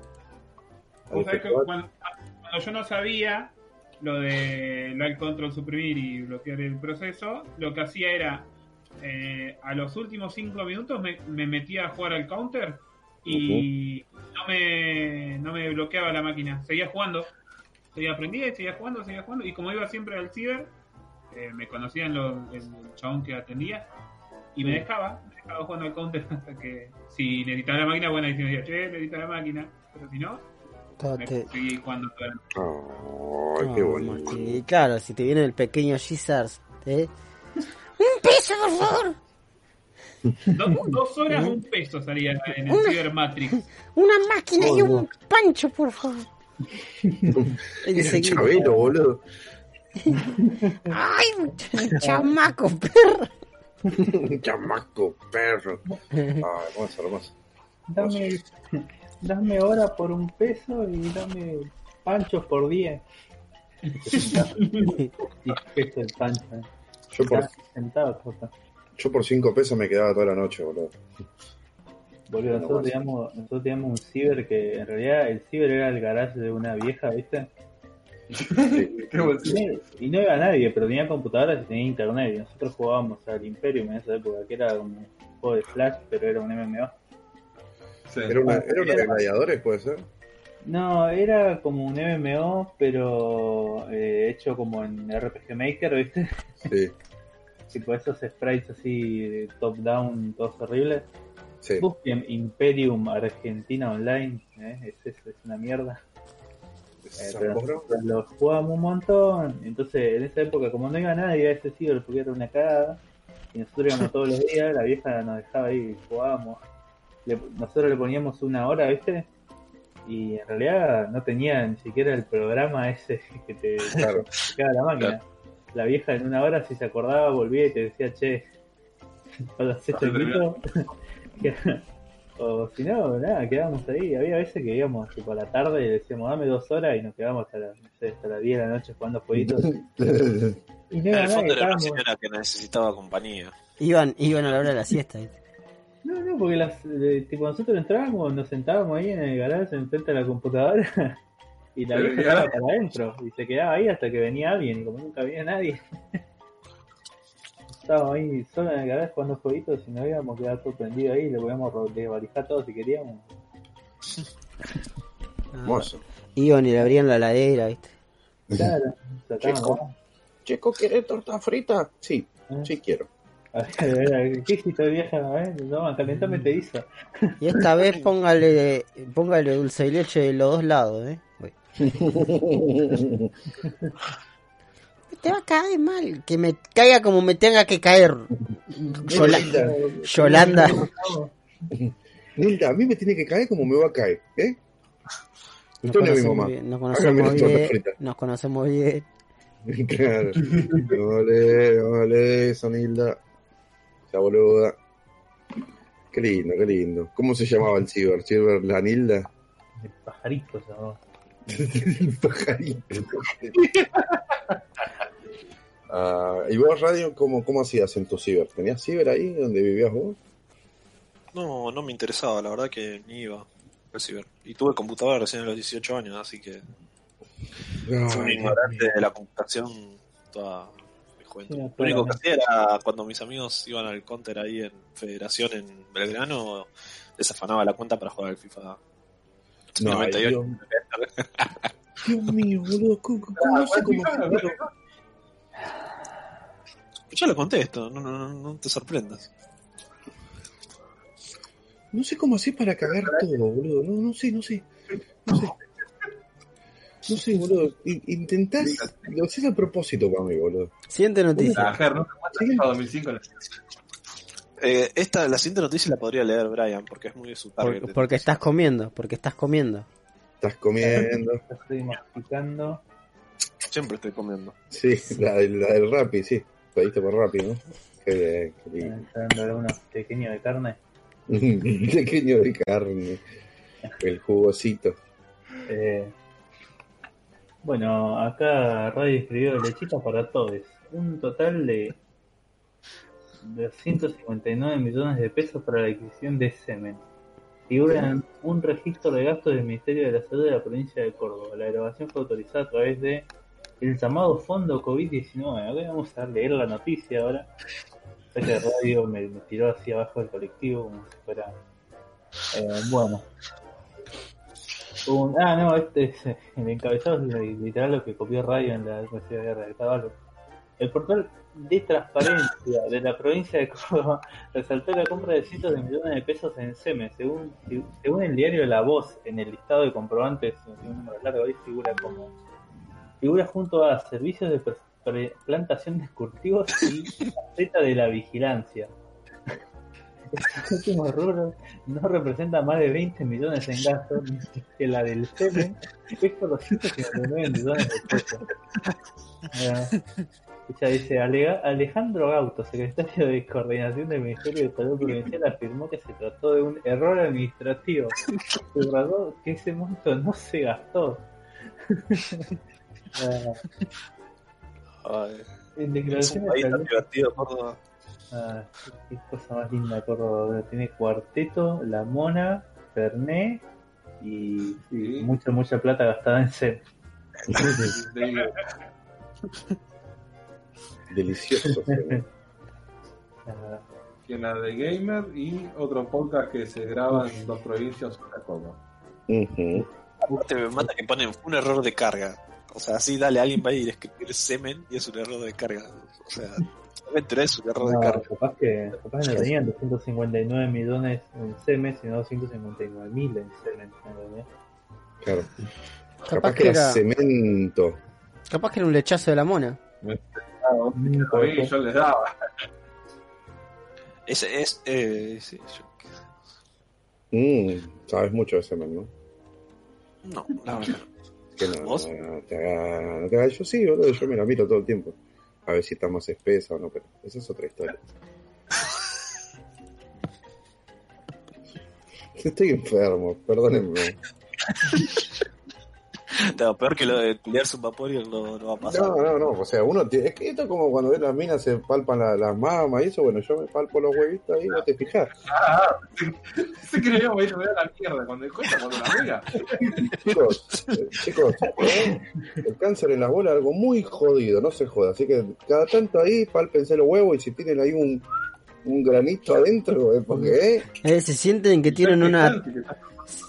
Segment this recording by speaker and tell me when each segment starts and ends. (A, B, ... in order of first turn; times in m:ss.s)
0:01.1-0:01.7 A
0:01.1-0:17.3 B
0:13.3-0:13.7 A
0:17.9-0:20.7 B
0:21.3-0:23.9 B
0:24.6-0:30.4 B
0:31.0-0:31.5 C
0:31.2-0:32.5 B
0:32.5-0:34.6 A
0:33.6-0:37.1 C
0:38.0-0:39.2 C
0:40.5-0:40.8 D
0:40.5-0:43.7 B
0:42.7-0:43.0 C
0:43.7-0:46.3 C
0:44.6-0:45.1 D
0:47.0-0:47.5 D
0:47.3-0:49.2 A
0:47.8-0:48.9 C
0:50.2-0:50.8 D
0:50.8-0:53.3 C
0:54.0-0:55.8 A
0:56.2-0:56.4 C
0:56.4-0:57.3 A
0:57.9-1:03.0 D
0:58.0-0:58.4 A
1:04.0-1:06.7 D
1:04.6-1:05.0 B
1:07.1-1:07.5 A
1:07.2-1:08.5 D
1:09.0-1:11.0 A
1:12.3-1:17.5 D
1:12.5-1:13.0 A
1:18.4-1:19.7 E
1:18.5-1:19.5 A
1:19.4-1:26.9 D
1:28.1-1:29.0 E
1:28.3-1:30.0 A
1:28.4-1:29.2 D
1:30.6-1:36.4 D
1:36.6-1:36.9 A
1:37.7-1:41.1 D
1:41.8-1:46.0 D
1:47.1-1:47.9 A
1:47.2-1:53.0 D
1:53.5-1:56.6 D
1:57.3-1:59.3 D
2:00.1-2:08.5 D
2:03.9-2:04.3 A
2:09.6-2:10.8 D
2:09.9-2:10.5 E
2:11.4-2:11.8 D
2:12.4-2:19.7 D
2:19.4-2:20.6 A
2:20.9-2:22.0 D
2:21.1-2:23.6 F
2:23.8-2:25.3 C
2:26.0-2:31.2 D
2:31.8-2:35.8 D
2:31.9-2:32.6 E
2:37.8-2:43.4 D
2:45.5-2:47.9 C
2:45.6-2:46.0 A
2:48.6-2:49.9 D
2:49.4-2:49.8 A
2:50.4-2:53.1 A
2:53.5-2:57.4 D
2:57.4-3:01.5 C
3:01.8-3:03.3 A
3:03.6-3:03.9 D
3:05.1-3:10.9 C
3:08.9-3:11.3 D
3:09.1-3:10.9 A
3:11.7-3:14.6 A
3:15.8-3:18.0 A
3:15.8-3:19.1 C
3:19.6-3:23.2 A
3:24.1-3:24.8 A
3:26.1-3:29.3 A
3:29.8-3:31.0 D
3:31.4-3:33.6 A
3:33.6-3:34.1 E
3:35.9-3:40.2 A
3:41.3-3:46.6 F
3:47.8-3:48.9 A
3:48.1-3:58.8 F
3:51.5-3:52.2 D
3:59.8-4:00.6 A
3:59.8-4:01.7 F
4:02.0-4:04.6 A
4:03.4-4:04.7 E
4:07.1-4:09.3 F
4:11.9-4:14.7 A
4:15.3-4:15.5 A
4:17.1-4:20.7 A
4:18.7-4:18.9 E
4:20.9-4:21.8 C
4:21.4-4:21.7 A
4:21.5-4:23.4 E
4:22.3-4:22.6 A
4:24.6-4:28.4 F
4:27.6-4:29.9 C
4:30.4-4:31.4 A
4:30.8-4:32.8 D
4:33.6-4:34.6 F
4:34.7-4:39.0 A
4:38.8-4:40.8 D
4:41.3-4:43.2 A
4:44.0-4:45.0 A
4:45.6-4:46.1 D
4:47.6-4:52.0 D
4:53.4-4:57.0 D
4:57.7-5:03.3 D
5:03.8-5:07.5 D
5:08.3-5:11.6 D
5:12.5-5:13.2 D
5:15.0-5:20.2 D
5:20.8-5:32.3 D
5:33.2-5:38.9 D
5:40.3-5:48.4 D
5:49.5-5:50.0 D
5:50.7-6:01.3 D
6:01.9-6:02.5 D
6:03.1-6:03.6 D
6:05.0-6:05.5 F
6:05.8-6:07.0 D
6:06.1-6:07.8 F
6:08.3-6:13.6 D
6:14.2-6:16.8 D
6:14.9-6:15.3 E
6:17.5-6:18.0 A
6:17.6-6:18.6 E
6:21.1-6:22.2 A
6:21.7-6:22.2 D
6:23.4-6:23.8 D
6:24.3-6:28.8 E
6:27.1-6:27.4 D
6:29.3-6:29.9 A
6:30.2-6:30.9 D
6:30.3-6:38.3 F
6:37.8-6:44.5 D
6:45.2-6:45.5 A
6:46.3-6:47.0 C
6:46.3-6:48.0 A
6:48.5-6:49.8 C
6:50.0-6:52.6 E
6:50.9-6:51.7 D
6:54.3-6:56.1 F
6:57.3-6:59.1 A
7:00.2-7:01.1 F
7:01.6-7:08.0 A
7:01.7-7:02.1 F
7:12.4-7:14.2 A
7:14.8-7:15.2 F
7:16.4-7:19.5 F
7:18.8-7:25.3 A
7:25.4-7:30.1 E
7:30.1-7:38.2 A
7:30.2-7:31.0 F
7:38.8-7:40.9 A
7:41.0-7:42.6 C
7:41.9-7:43.1 E